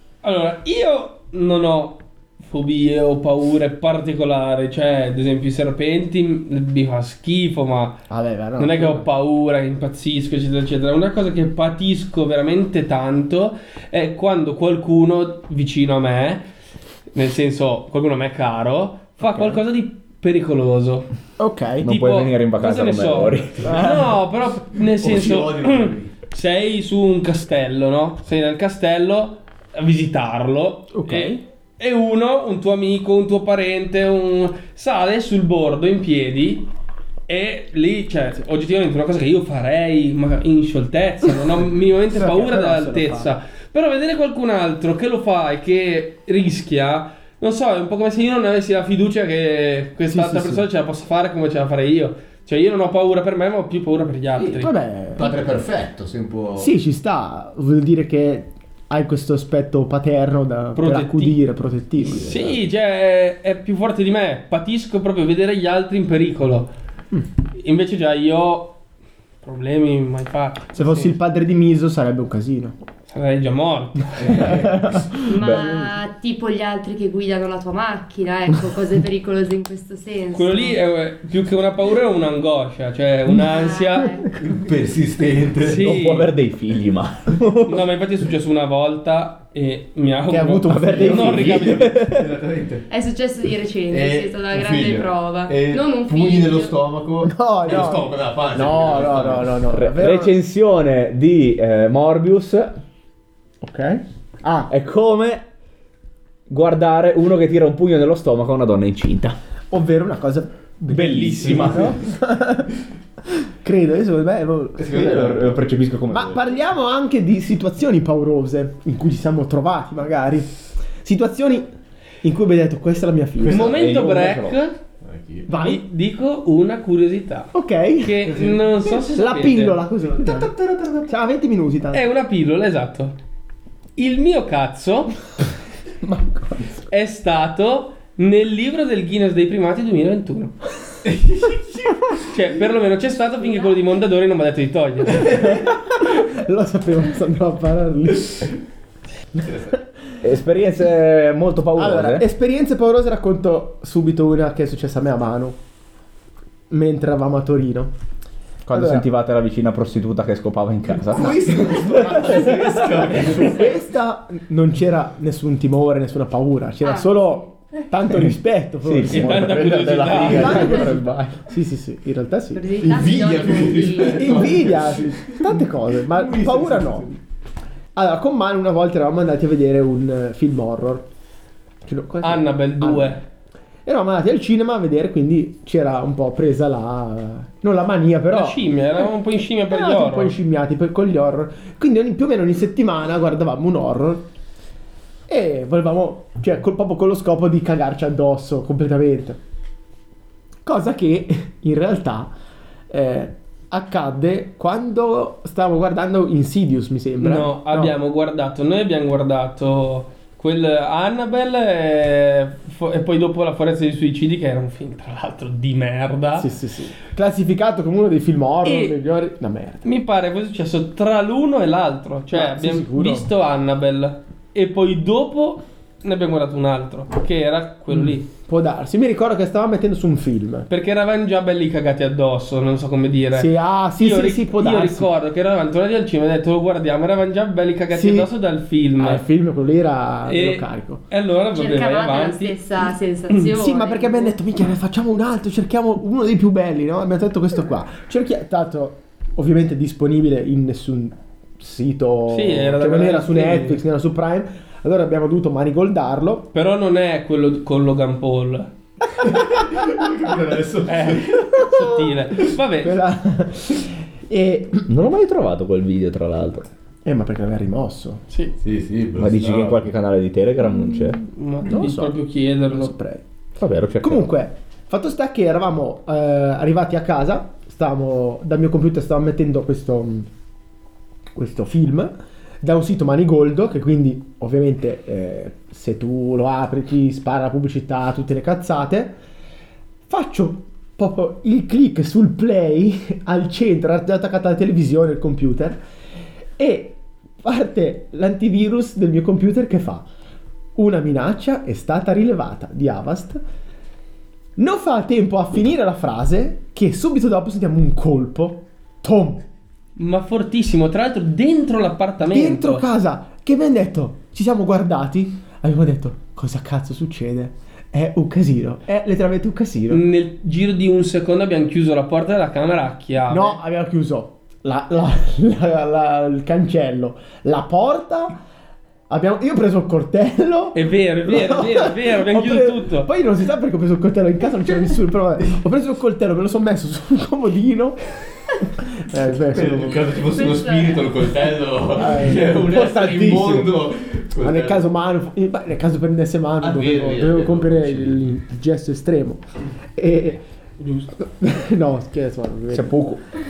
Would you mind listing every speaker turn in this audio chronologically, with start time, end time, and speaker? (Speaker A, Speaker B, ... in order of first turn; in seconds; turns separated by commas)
Speaker A: 0.2-8.0, Speaker B: 8.1-9.1, Speaker A: 8.6-16.5, Speaker A: 17.1-21.1, Speaker B: 19.2-19.6, Speaker B: 21.4-21.9, Speaker C: 21.8-23.9, Speaker A: 21.8-36.7, Speaker B: 23.7-24.0, Speaker D: 24.8-26.1, Speaker B: 30.9-31.4, Speaker A: 37.3-54.7, Speaker B: 42.1-43.3, Speaker B: 50.1-50.6, Speaker D: 54.4-56.7, Speaker B: 54.6-55.3, Speaker B: 56.6-62.6, Speaker A: 60.8-61.4, Speaker A: 62.0-66.7, Speaker D: 62.2-62.5, Speaker A: 67.6-68.8, Speaker A: 69.4-71.2, Speaker B: 70.8-72.8, Speaker A: 73.1-74.5, Speaker D: 74.2-74.9, Speaker B: 74.2-75.6, Speaker E: 75.3-80.8, Speaker C: 75.4-75.6, Speaker A: 80.3-84.3, Speaker E: 83.5-84.3, Speaker D: 84.4-85.9, Speaker A: 85.6-86.3, Speaker C: 85.7-87.9, Speaker A: 87.6-92.0, Speaker B: 90.3-91.7, Speaker C: 90.7-92.3, Speaker D: 91.5-92.9, Speaker E: 92.9-96.8, Speaker D: 93.9-99.6, Speaker B: 97.2-100.4, Speaker C: 99.7-102.8, Speaker B: 103.6-104.7, Speaker C: 104.7-105.4, Speaker C: 106.5-109.4, Speaker B: 109.7-112.7, Speaker C: 110.9-112.0, Speaker D: 111.4-112.0, Speaker B: 113.6-115.5, Speaker D: 114.8-115.6, Speaker C: 115.0-116.4, Speaker B: 116.1-121.7, Speaker B: 122.2-123.7, Speaker D: 123.4-123.7, Speaker A: 123.5-124.8, Speaker C: 123.5-124.6, Speaker D: 125.0-125.5, Speaker B: 125.5-125.8, Speaker A: 125.5-129.8, Speaker B: 127.5-130.5, Speaker D: 130.2-131.1, Speaker B: 131.1-132.0, Speaker A: 131.9-133.2, Speaker A: 134.0-135.2, Speaker B: 136.0-136.7, Speaker A: 136.9-140.6, Speaker D: 141.0-142.0, Speaker A: 142.2-145.5, Speaker D: 145.1-145.6, Speaker B: 145.6-148.5, Speaker D: 149.4-149.8, Speaker C: 150.2-152.3, Speaker B: 151.8-155.6, Speaker B: 156.7-157.9, Speaker C: 158.7-162.3, Speaker B: 158.7-159.1, Speaker D: 161.1-163.8, Speaker B: 162.0-169.6, Speaker E: 166.8-167.4, Speaker C: 168.1-171.4, Speaker A: 169.1-170.9, Speaker B: 170.2-172.7, Speaker E: 172.5-174.6, Speaker D: 172.8-177.1, Speaker B: 174.0-177.2, Speaker B: 177.9-181.1, Speaker B: 181.8-183.2, Speaker A: 182.2-183.2, Speaker B: 183.9-189.0, Speaker A: 188.3-190.4, Speaker B: 189.7-194.2, Speaker B: 195.3-199.4, Speaker B: 200.6-202.3, Speaker B: 202.9-207.9, Speaker A: 207.2-216.5, Speaker B: 216.4-219.8, Speaker A: 218.6-219.0, Speaker A: 219.8-228.3, Speaker B: 222.3-223.3, Speaker B: 227.9-230.7, Speaker A: 230.7-239.2, Speaker B: 233.3-235.1, Speaker B: 237.9-238.3, Speaker B: 239.0-241.0, Speaker A: 240.2-242.6, Speaker E: 241.5-244.3, Speaker B: 243.5-256.5, Speaker A: 252.3-253.8, Speaker A: 256.5-258.7, Speaker D: 259.2-261.5, Speaker A: 260.9-263.0, Speaker B: 261.5-262.2, Speaker B: 262.8-264.9, Speaker C: 264.9-266.7, Speaker B: 267.1-268.2, Speaker D: 268.6-269.9, Speaker C: 269.2-271.2, Speaker A: 271.3-272.9, Speaker B: 271.6-273.2, Speaker C: 273.6-274.3, Speaker B: 274.0-280.3, Speaker B: 281.4-289.2, Speaker B: 290.1-295.8, Speaker B: 296.6-300.1, Speaker B: 300.8-303.4, Speaker B: 304.6-309.4, Speaker A: 310.0-312.9, Speaker B: 312.3-320.0, Speaker A: 319.9-323.6, Speaker B: 323.3-328.4, Speaker B: 329.1-338.0, Speaker A: 330.7-333.1, Speaker B: 338.8-340.1, Speaker D: 339.4-344.8, Speaker E: 340.3-341.2, Speaker B: 341.9-342.8, Speaker C: 342.7-343.7, Speaker B: 344.4-350.4, Speaker D: 346.6-348.3, Speaker A: 350.8-351.1, Speaker B: 351.2-353.0, Speaker C: 352.7-353.2